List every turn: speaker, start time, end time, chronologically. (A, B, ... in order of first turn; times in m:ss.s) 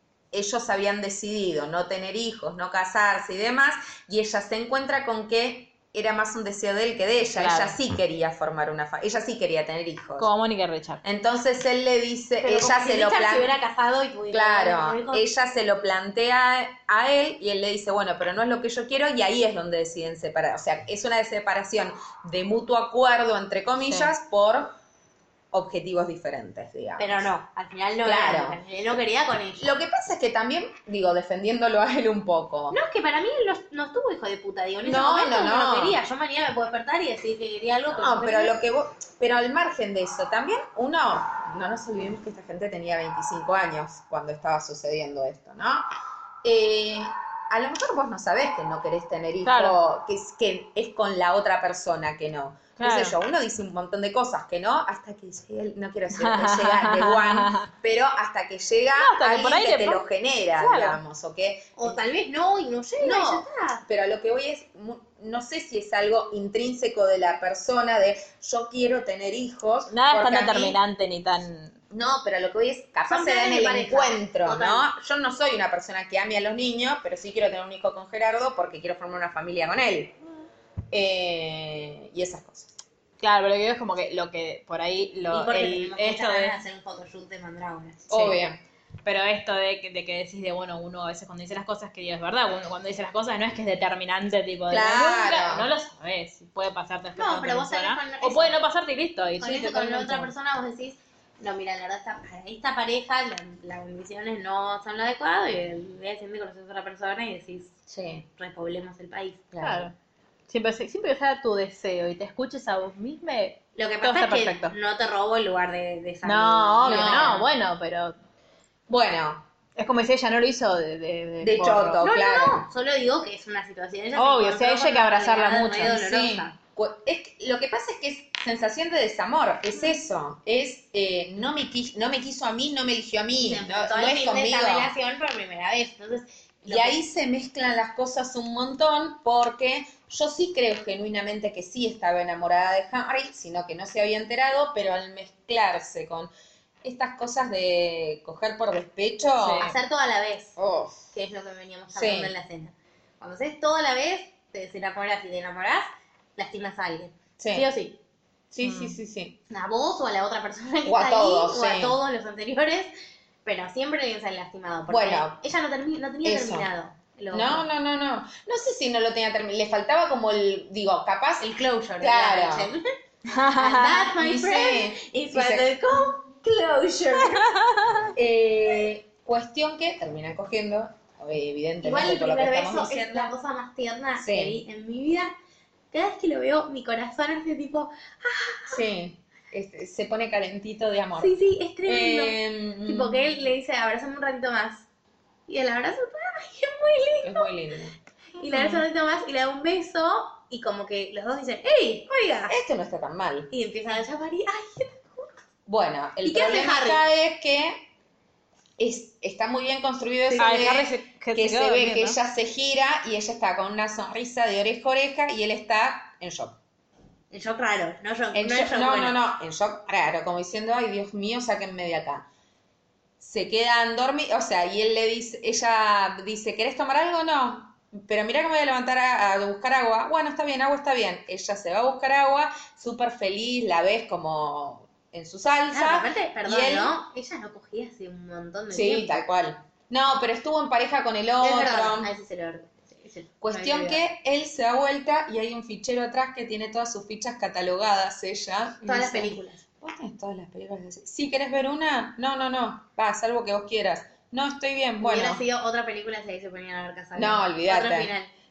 0:00.3-0:10.3 A
0:07.4-0:07.8 B
0:10.2-0:11.0 B
0:11.0-0:13.5 A
0:12.4-0:15.2 C
0:14.3-0:24.8 A
0:25.5-0:27.3 A
0:27.0-0:29.7 C
0:28.0-0:28.6 A
0:29.6-0:32.8 A
0:32.7-0:38.5 C
0:34.8-0:36.0 A
0:37.9-0:45.9 A
0:46.4-1:02.0 A
0:49.4-0:49.8 B
0:52.8-0:53.2 B
0:56.1-0:57.7 B
0:59.0-1:00.0 B
1:00.6-1:01.0 B
1:01.8-1:03.8 C
1:03.0-1:10.8 A
1:09.9-1:11.8 B
1:11.9-1:20.2 A
1:13.1-1:14.9 C
1:20.9-1:22.7 A
1:23.2-1:26.6 B
1:25.3-1:28.1 C
1:28.1-1:28.6 A
1:29.0-1:40.3 B
1:34.7-1:35.7 A
1:37.2-1:38.6 C
1:39.4-1:47.8 C
1:47.9-1:48.3 A
1:48.4-1:49.5 C
1:49.5-1:49.9 A
1:49.6-1:49.9 B
1:50.5-1:54.7 B
1:53.8-1:57.4 C
1:56.2-1:58.2 B
1:56.8-1:57.5 A
1:58.9-1:59.5 A
1:59.8-2:02.0 B
2:01.4-2:02.7 A
2:02.0-2:06.6 C
2:04.2-2:06.0 B
2:05.9-2:14.9 A
2:13.4-2:17.0 C
2:16.7-2:26.3 A
2:26.8-2:29.7 A
2:29.4-2:29.7 B
2:29.5-2:30.6 C
2:30.6-2:31.1 A
2:31.1-2:38.0 C
2:31.9-2:32.3 A
2:37.4-2:37.7 A
2:38.5-2:39.4 A
2:38.6-2:39.0 B
2:39.5-2:42.9 C
2:40.8-2:42.0 A
2:43.4-2:47.7 C
2:44.9-2:45.4 A
2:46.2-2:46.7 A
2:47.3-2:52.7 A
2:51.4-2:52.8 C
2:53.3-2:54.1 B
2:53.6-2:57.5 C
2:54.2-2:55.7 A
2:57.6-2:58.1 B
2:58.2-3:03.3 A
3:01.8-3:05.3 C
3:04.2-3:04.6 A
3:05.9-3:08.8 C
3:08.7-3:11.3 A
3:11.2-3:14.9 C
3:11.8-3:13.2 A
3:15.5-3:17.5 C
3:17.2-3:18.0 A
3:18.4-3:22.6 C
3:18.5-3:18.8 B
3:22.5-3:23.5 A
3:23.5-3:25.3 C
3:25.7-3:27.9 A
3:26.2-3:27.0 C
3:28.8-3:36.6 A
3:30.4-3:32.2 B
3:37.3-3:39.2 C
3:38.3-3:42.3 A
3:43.2-3:57.0 A
3:55.7-3:59.2 C
3:58.7-4:02.1 A
4:01.4-4:04.0 C
4:03.4-4:15.4 A
4:08.8-4:09.6 C
4:15.0-4:18.3 C
4:17.2-4:18.1 A